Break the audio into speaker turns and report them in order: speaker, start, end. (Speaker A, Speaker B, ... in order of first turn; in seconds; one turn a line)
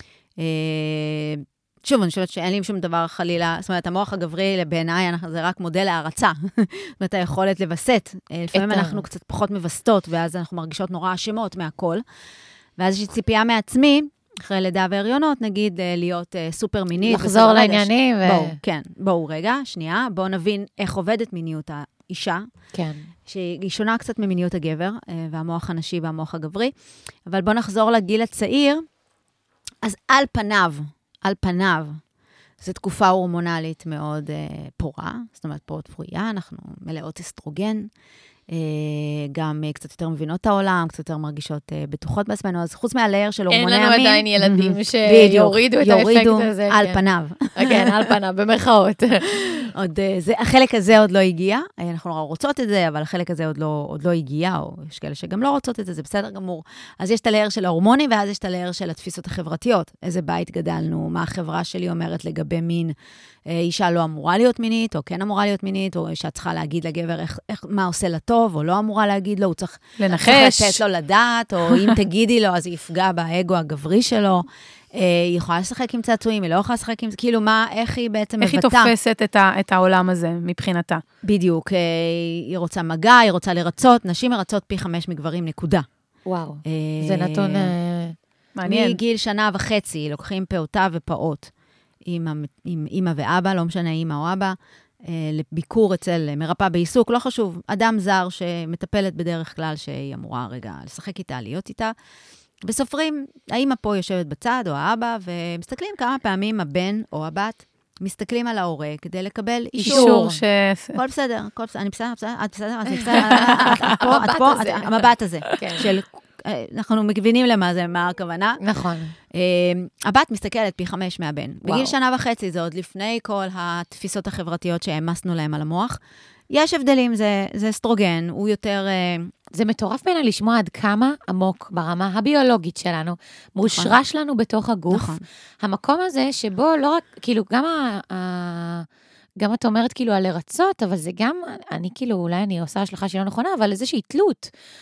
Speaker A: 0.4-12.0
Speaker B: 8.5-9.0
Speaker A: 12.8-22.4
Speaker B: 17.0-18.6
Speaker B: 22.7-23.1
Speaker A: 23.3-26.7
Speaker A: 27.3-28.8
Speaker A: 29.8-32.0
Speaker A: 32.6-37.9
Speaker A: 38.5-44.3
Speaker B: 43.5-47.0
Speaker C: 44.4-44.8
Speaker A: 45.0-48.1
Speaker B: 47.5-49.7
Speaker A: 49.7-62.9
Speaker A: 63.5-78.9
Speaker C: 70.0-70.8
Speaker C: 78.4-81.0
Speaker A: 81.2-85.8
Speaker B: 86.3-88.1
Speaker A: 86.7-87.7
Speaker C: 88.5-89.0
Speaker A: 88.7-91.5
Speaker A: 92.1-101.9
Speaker A: 102.7-110.3
Speaker B: 109.8-110.4
Speaker C: 109.8-111.0
Speaker A: 110.9-118.6
Speaker B: 113.0-115.8
Speaker C: 113.3-114.0
Speaker B: 118.6-119.2
Speaker A: 119.3-126.0
Speaker B: 121.6-121.9
Speaker A: 126.5-129.3
Speaker B: 129.5-138.8
Speaker A: 133.6-133.9
Speaker A: 134.9-135.2
Speaker B: 139.4-144.5